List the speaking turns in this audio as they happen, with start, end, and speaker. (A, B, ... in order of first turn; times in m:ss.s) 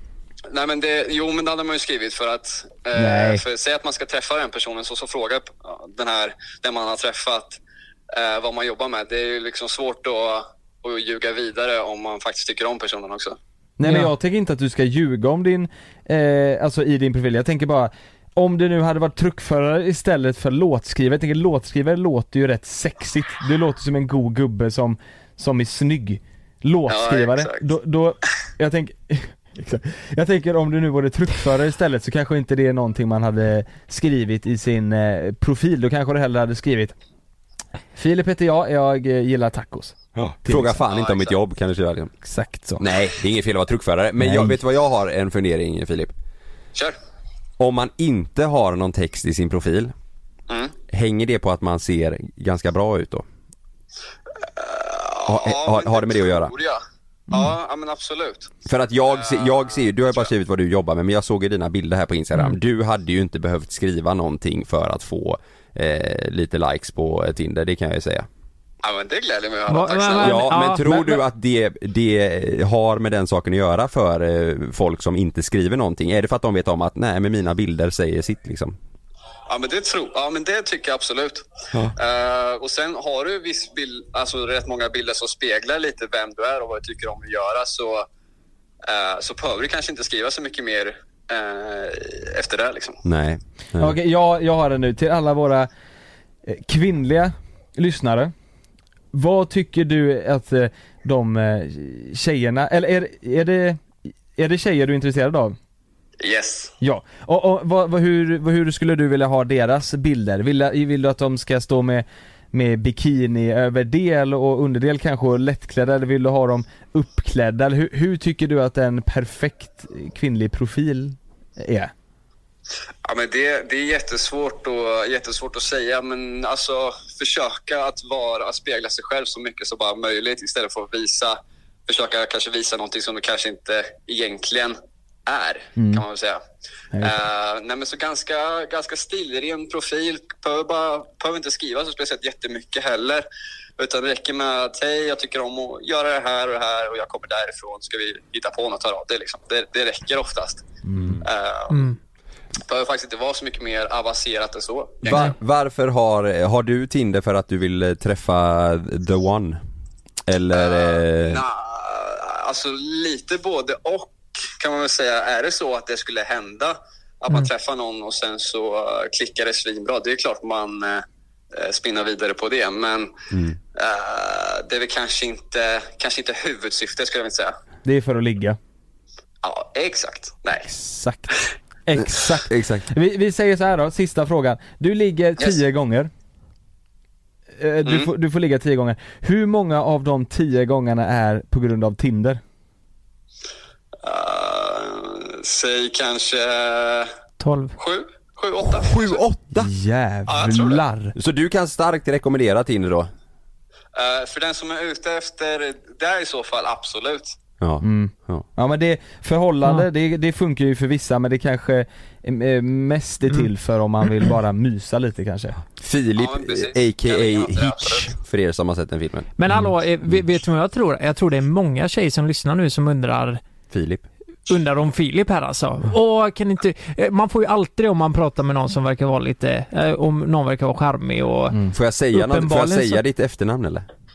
0:00.5-0:07.6 A
0:03.0-0:03.4 B
0:08.1-0:13.4 A
0:13.8-0:37.0 B
0:13.8-0:14.1 C
0:26.9-0:27.6 A
0:38.0-0:40.8 B
0:40.2-0:42.1 D
0:40.8-0:41.4 A
0:42.2-0:42.8 B
0:42.8-0:46.1 D
0:44.2-0:44.6 B
0:47.6-0:49.9 D
0:50.5-0:50.8 A
0:50.9-0:53.2 D
0:54.6-0:58.5 A
0:55.3-0:56.5 D
0:58.7-1:08.3 D
0:59.1-1:00.3 A
1:08.8-1:10.5 A
1:09.7-1:11.2 C
1:10.2-1:18.8 D
1:19.5-1:28.1 A
1:28.8-1:33.0 A
1:33.0-1:34.0 D
1:33.8-1:35.7 B
1:36.4-1:38.3 B
1:39.1-1:45.6 B
1:46.2-1:46.7 A
1:46.8-2:01.9 B
2:03.0-2:16.4 A
2:15.8-2:16.0 B
2:16.9-2:17.2 B
2:17.0-2:23.3 A
2:23.8-2:30.6 A
2:30.9-2:31.1 B
2:31.2-2:31.9 A
2:31.7-2:32.0 C
2:32.7-2:35.3 A
2:35.0-2:39.6 D
2:40.3-2:41.4 D
2:40.5-2:53.1 A
2:53.7-2:57.6 A
2:57.8-2:58.6 B
2:59.4-3:00.7 A
3:00.7-3:01.3 B
3:01.9-3:06.1 B
3:02.5-3:02.9 D
3:07.6-3:12.4 B
3:07.8-3:08.1 A
3:14.0-3:17.1 A
3:17.4-3:17.8 C
3:17.8-3:19.2 A
3:18.8-3:19.7 D
3:19.6-3:21.1 B
3:20.3-3:20.8 A
3:21.2-3:23.1 D
3:23.9-3:27.4 A
3:27.6-3:28.5 D
3:27.8-3:35.6 B
3:35.8-3:39.3 D
3:36.2-3:38.1 A
3:39.4-3:43.4 C
3:43.7-3:44.0 D
3:44.5-3:51.6 C
3:51.7-3:53.9 D
3:52.1-3:53.0 C